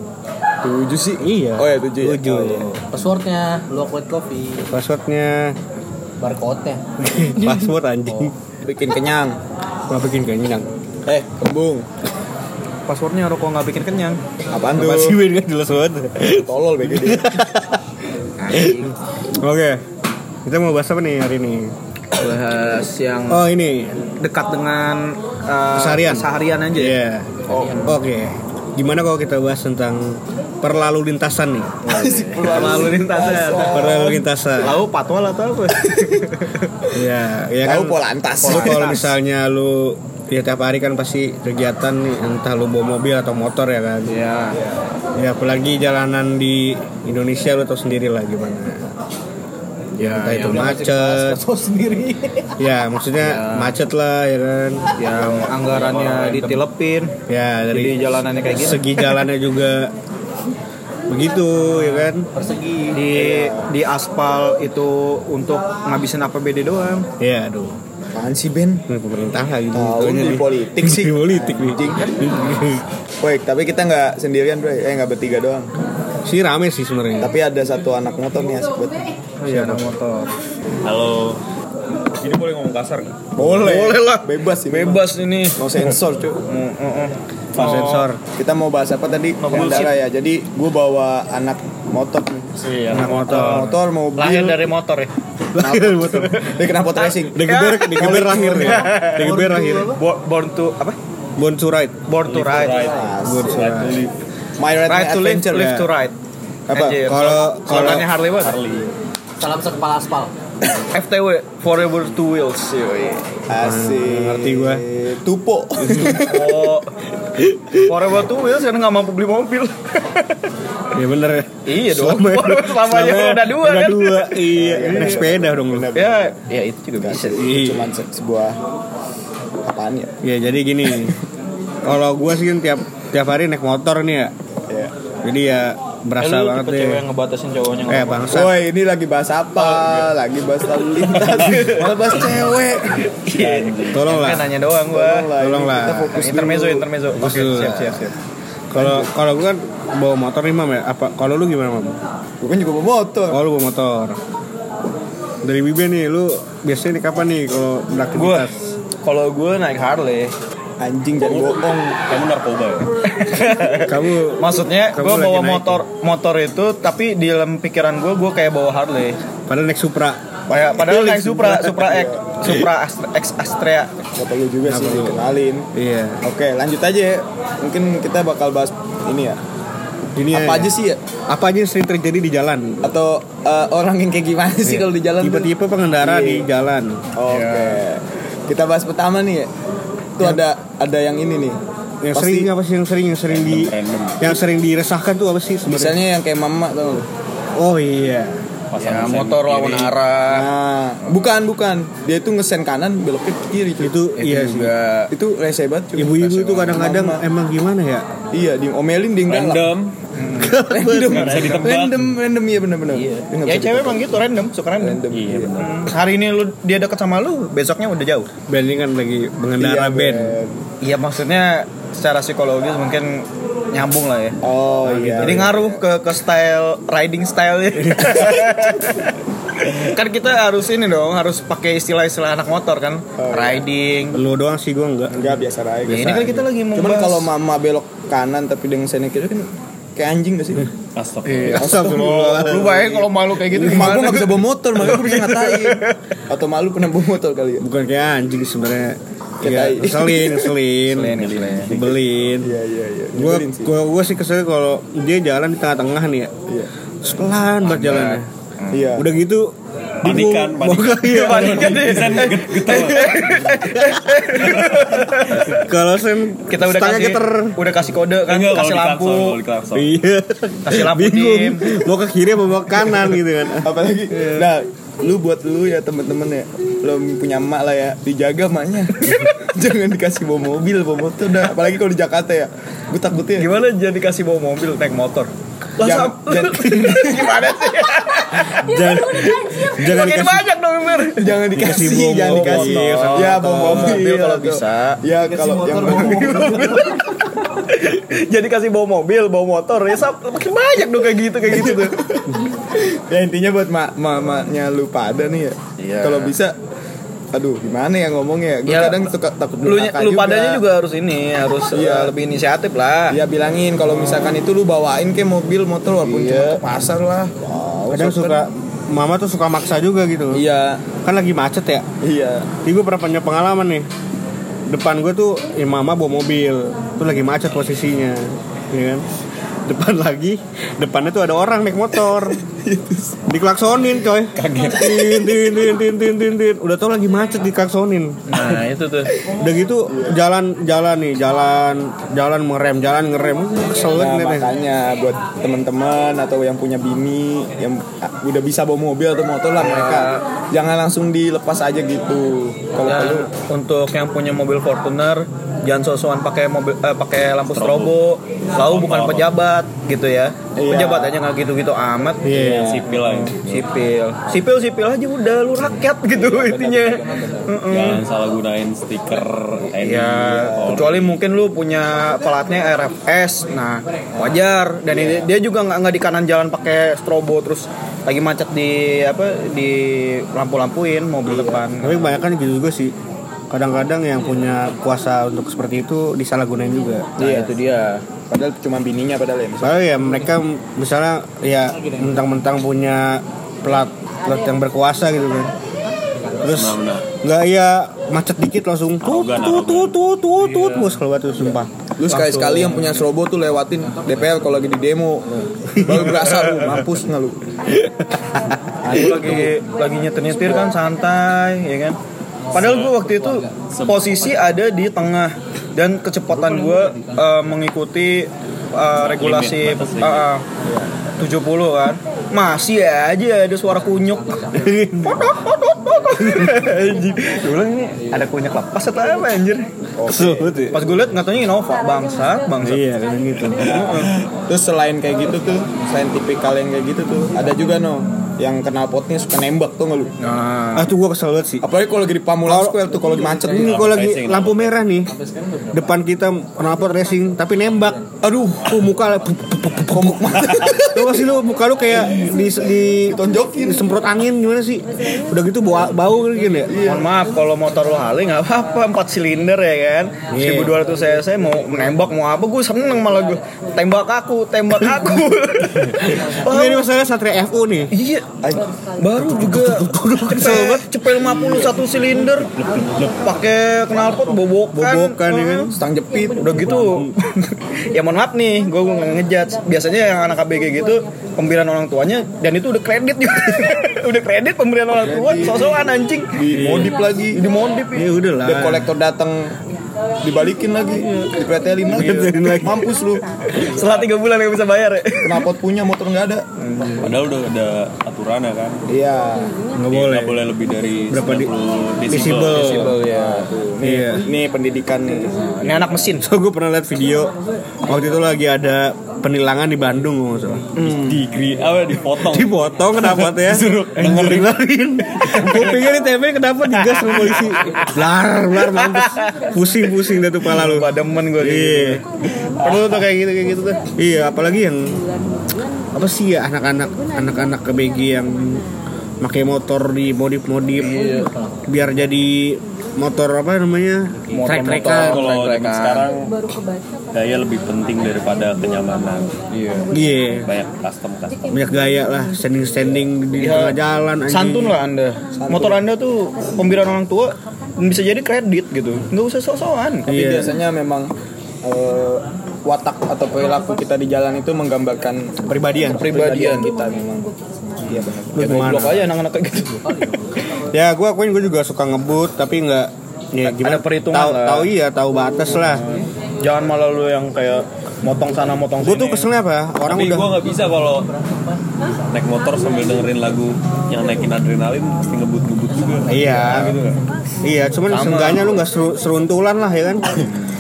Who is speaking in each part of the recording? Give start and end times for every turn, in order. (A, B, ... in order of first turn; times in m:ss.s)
0:00.6-0:02.7 A
0:01.2-0:02.7 B
0:02.8-0:04.7 C
0:04.6-0:05.6 B
0:06.2-0:06.8 C
0:07.0-0:08.3 B
0:08.6-0:09.4 A
0:09.9-0:10.7 B
0:11.1-0:11.9 A
0:12.9-0:14.2 D
0:14.5-0:15.2 A
0:14.8-0:17.8 B
0:16.3-0:17.4 A
0:18.4-0:18.9 D
0:18.5-0:19.8 B
0:20.4-0:21.7 B
0:22.1-0:23.4 D
0:23.3-0:24.0 B
0:24.2-0:27.0 D
0:25.8-0:27.3 B
0:27.5-0:27.9 A
0:27.8-0:32.8 B
0:31.9-0:34.2 A
0:32.4-0:36.7 D
0:33.7-0:34.8 B
0:36.9-0:44.1 B
0:37.6-0:39.0 A
0:38.4-0:39.1 D
0:44.1-0:44.6 D
0:45.2-0:48.9 B
0:50.0-0:52.5 C
0:50.0-0:51.4 B
0:52.6-0:54.8 B
0:53.3-0:53.7 D
0:55.0-0:57.1 D
0:55.7-0:56.5 E
0:57.3-0:58.0 B
0:57.7-0:59.2 D
0:58.5-0:59.9 B
1:01.1-1:02.3 B
1:01.7-1:02.1 D
1:02.3-1:03.0 C
1:02.9-1:07.1 D
1:03.1-1:03.7 A
1:07.2-1:07.8 B
1:08.1-1:08.8 A
1:08.9-1:12.8 B
1:09.7-1:12.2 A
1:12.1-1:12.6 D
1:13.2-1:15.7 A
1:16.2-1:17.4 B
1:17.2-1:19.0 A
1:19.4-1:20.3 D
1:19.5-1:19.9 B
1:20.8-1:21.4 E
1:22.2-1:23.2 E
1:23.4-1:26.4 A
1:23.4-1:25.6 D
1:26.4-1:28.1 D
1:27.6-1:28.2 B
1:28.3-1:32.6 A
1:29.4-1:29.9 D
1:29.5-1:29.9 E
1:32.6-1:33.2 E
1:32.9-1:33.7 B
1:32.9-1:35.1 D
1:33.1-1:34.7 A
1:35.6-1:36.5 B
1:35.6-1:37.4 A
1:36.1-1:36.7 D
1:37.3-1:39.9 B
1:37.4-1:41.0 D
1:38.0-1:38.6 A
1:39.2-1:39.9 C
1:41.4-1:42.0 B
1:42.1-1:43.0 D
1:42.2-1:44.1 E
1:42.9-1:43.7 A
1:43.2-1:44.1 B
1:44.6-1:45.8 A
1:44.9-1:46.2 D
1:45.5-1:45.9 B
1:46.7-1:47.0 A
1:46.7-1:48.6 D
1:46.8-1:48.0 B
1:48.4-1:48.9 E
1:49.4-1:50.3 C
1:50.9-1:53.4 D
1:53.5-1:56.6 A
1:53.5-1:54.8 B
1:56.2-1:56.9 D
1:57.5-1:57.9 B
1:57.8-2:00.5 D
2:00.9-2:05.9 B
2:01.6-2:05.2 D
2:04.5-2:06.4 A
2:05.9-2:07.5 D
2:07.0-2:08.6 A
2:07.4-2:07.9 B
2:09.6-2:10.2 A
2:10.2-2:11.2 B
2:11.8-2:14.3 B
2:14.7-2:14.9 A
2:15.2-2:17.0 B
2:16.2-2:18.3 D
2:17.9-2:18.6 B
2:18.3-2:23.4 A
2:21.1-2:21.9 D
2:23.3-2:25.3 D
2:23.3-2:24.0 E
2:23.9-2:24.5 B
2:24.9-2:26.9 A
2:25.4-2:26.3 B
2:26.1-2:28.1 D
2:27.2-2:28.0 B
2:28.7-2:32.0 B
2:28.8-2:29.1 A
2:32.4-2:33.4 A
2:33.3-2:34.2 B
2:35.4-2:38.8 B
2:38.1-2:38.5 D
2:39.0-2:40.3 D
2:40.8-2:42.0 A
2:41.2-2:42.9 E
2:43.1-2:49.2 D
2:43.8-2:45.8 B
2:49.5-2:50.2 B
2:50.5-2:54.1 D
2:50.8-2:51.8 B
2:51.7-2:52.2 A
2:54.2-2:55.7 A
2:54.7-2:55.2 B
2:55.7-2:56.2 B
2:56.2-2:59.4 A
3:00.2-3:00.8 B
3:00.3-3:01.0 A
3:01.3-3:02.9 B
3:02.8-3:06.5 A
3:04.6-3:07.0 B
3:07.2-3:09.5 A
3:07.3-3:07.8 D
3:10.2-3:11.6 A
3:12.0-3:16.0 B
3:12.1-3:12.5 A
3:13.3-3:14.2 E
3:15.7-3:17.1 A
3:17.6-3:18.4 B
3:18.7-3:20.0 E
3:18.8-3:20.5 D
3:20.3-3:23.9 A
3:23.8-3:24.7 B
3:24.2-3:25.1 D
3:25.1-3:27.2 A
3:26.0-3:28.0 B
3:28.3-3:29.7 A
3:29.3-3:30.0 E
3:30.2-3:31.6 D
3:30.4-3:31.5 B
3:30.6-3:34.1 A
3:31.0-3:32.1 E
3:33.4-3:35.0 D
3:34.8-3:35.6 A
3:35.1-3:35.9 E
3:35.6-3:38.3 D
3:38.5-3:40.4 B
3:39.6-3:40.6 A
3:40.8-3:44.4 D
3:44.4-3:45.8 A
3:44.8-3:45.5 B
3:45.2-3:54.2 D
3:47.9-3:48.2 B
3:53.2-3:53.7 A
3:54.1-3:55.2 B
3:55.1-4:00.7 A
3:55.9-3:56.4 B
3:55.9-3:57.3 D
4:01.0-4:01.6 E
4:01.2-4:06.0 D
4:01.5-4:07.6 A
4:01.5-4:03.9 B
4:07.6-4:12.5 B
4:09.4-4:10.5 A
4:10.9-4:11.7 D
4:11.2-4:11.7 E
4:11.7-4:13.7 A
4:13.1-4:16.3 B
4:17.0-4:18.3 B
4:17.7-4:18.9 D
4:18.7-4:19.1 A
4:19.0-4:22.2 B
4:20.0-4:23.5 E
4:21.1-4:25.6 D
4:23.7-4:24.0 B
4:25.4-4:27.6 B
4:26.5-4:29.4 D
4:28.3-4:29.9 E
4:29.8-4:33.7 B
4:30.6-4:31.8 D
4:33.5-4:43.5 A
4:43.4-4:51.4 D
4:45.8-4:47.8 A
4:46.6-4:46.9 B
4:48.4-4:50.5 B
4:51.2-4:56.8 A
4:51.6-4:54.0 B
4:52.2-5:02.0 D
4:56.1-4:56.5 B
5:01.6-5:06.6 A
5:05.8-5:06.4 E
5:07.3-5:10.6 A
5:08.7-5:09.1 D
5:09.6-5:13.2 D
5:11.7-5:12.1 A
5:13.1-5:18.4 A
5:16.0-5:16.6 D
5:17.9-5:20.4 B
5:20.3-5:20.8 A
5:21.0-5:21.8 B
5:22.0-5:22.5 A
5:22.6-5:23.9 B
5:24.7-5:29.1 B
5:29.7-5:32.4 B
5:32.2-5:33.2 A
5:33.3-5:38.4 B
5:34.4-5:34.8 E
5:38.3-5:39.1 D
5:39.4-5:44.5 B
5:39.9-5:40.2 A
5:44.0-5:53.3 A
5:49.6-5:50.3 D
5:52.9-6:08.0 D
5:57.5-5:58.0 E
5:58.6-5:59.3 E
6:00.6-6:01.2 A
6:02.2-6:03.0 B
6:02.4-6:03.7 E
6:06.1-6:07.5 A
6:07.7-6:11.2 E
6:09.8-6:22.2 D
6:10.4-6:10.7 A
6:14.9-6:15.3 A
6:21.2-6:21.7 A
6:21.8-6:22.9 B
6:23.5-6:27.1 B
6:27.2-6:27.5 A
6:27.2-6:28.1 D
6:28.3-6:29.8 A
6:29.6-6:35.5 B
6:36.4-6:41.7 B
6:36.4-6:37.1 E
6:39.0-6:39.9 E
6:42.0-6:47.4 A
6:42.1-6:43.0 D
6:47.9-6:48.4 B
6:48.8-6:52.0 D
6:52.5-7:00.4 D
6:52.5-6:53.0 E
6:53.7-6:54.5 E
6:59.0-7:00.3 E
7:00.6-7:00.9 A
7:01.2-7:09.7 D
7:04.6-7:05.3 B
7:10.0-7:10.6 A
7:10.1-7:10.8 B
7:10.7-7:12.9 D
7:12.6-7:14.0 B
7:13.6-7:14.2 D
7:14.5-7:20.1 A
7:20.2-7:20.9 D
7:20.8-7:21.6 B
7:21.6-7:23.9 A
7:22.5-7:22.9 B
7:23.0-7:24.8 E
7:23.5-7:25.1 B
7:25.7-7:28.0 B
7:28.2-7:28.8 A
7:28.7-7:36.8 B
7:29.8-7:31.2 A
7:33.0-7:34.0 A
7:36.7-7:37.1 A
7:36.8-7:46.9 D
7:40.3-7:40.7 B
7:45.9-7:47.9 B
7:47.9-7:52.5 D
7:49.2-7:51.4 B
7:52.5-7:53.2 E
7:53.2-8:08.1 D
7:54.7-7:55.8 B
8:05.0-8:05.8 A
8:06.3-8:07.4 A
8:06.5-8:06.9 B
8:07.9-8:08.9 B
8:08.4-8:09.6 A
8:10.2-8:13.5 A
8:11.9-8:12.8 B
8:13.5-8:15.5 D
8:13.8-8:14.1 E
8:15.2-8:16.5 A
8:16.6-8:17.1 D
8:17.0-8:18.8 E
8:18.9-8:19.6 A
8:19.8-8:20.4 B
8:19.9-8:22.9 E
8:21.1-8:21.5 B
8:22.1-8:23.0 B
8:22.5-8:23.5 D
8:23.0-8:25.7 A
8:23.8-8:24.3 B
8:25.6-8:26.2 D
8:26.2-8:27.3 B
8:27.9-8:30.6 B
8:30.8-8:31.2 D
8:30.8-8:32.5 E
8:32.2-8:42.0 B
8:33.4-8:34.6 E
8:35.4-8:35.8 D
8:36.9-8:37.9 D
8:38.6-8:39.4 D
8:40.4-8:42.0 D
8:42.6-8:43.8 D
8:44.0-8:45.0 B
8:45.9-8:48.6 B
8:49.2-8:50.9 B
8:50.8-8:51.3 D
8:51.7-8:55.2 B
8:54.3-8:56.1 D
8:54.6-8:56.4 E
8:57.1-8:59.4 E
8:59.5-8:59.9 D
8:59.9-9:00.5 B
9:00.5-9:01.5 E
9:01.5-9:04.8 B
9:03.4-9:10.1 D
9:05.4-9:05.8 A
9:10.1-9:10.5 B
9:10.1-9:11.1 A
9:11.6-9:17.3 A
9:15.4-9:16.1 B
9:16.0-9:16.7 D
9:17.8-9:18.7 A
9:17.9-9:20.3 D
9:18.4-9:19.0 B
9:20.7-9:25.8 B
9:23.4-9:24.7 D
9:25.6-9:29.3 D
9:28.8-9:30.4 B
9:29.9-9:31.1 E
9:32.1-9:36.9 E
9:36.1-9:36.8 B
9:36.4-9:36.8 D
9:37.4-9:40.3 B
9:37.9-9:38.5 D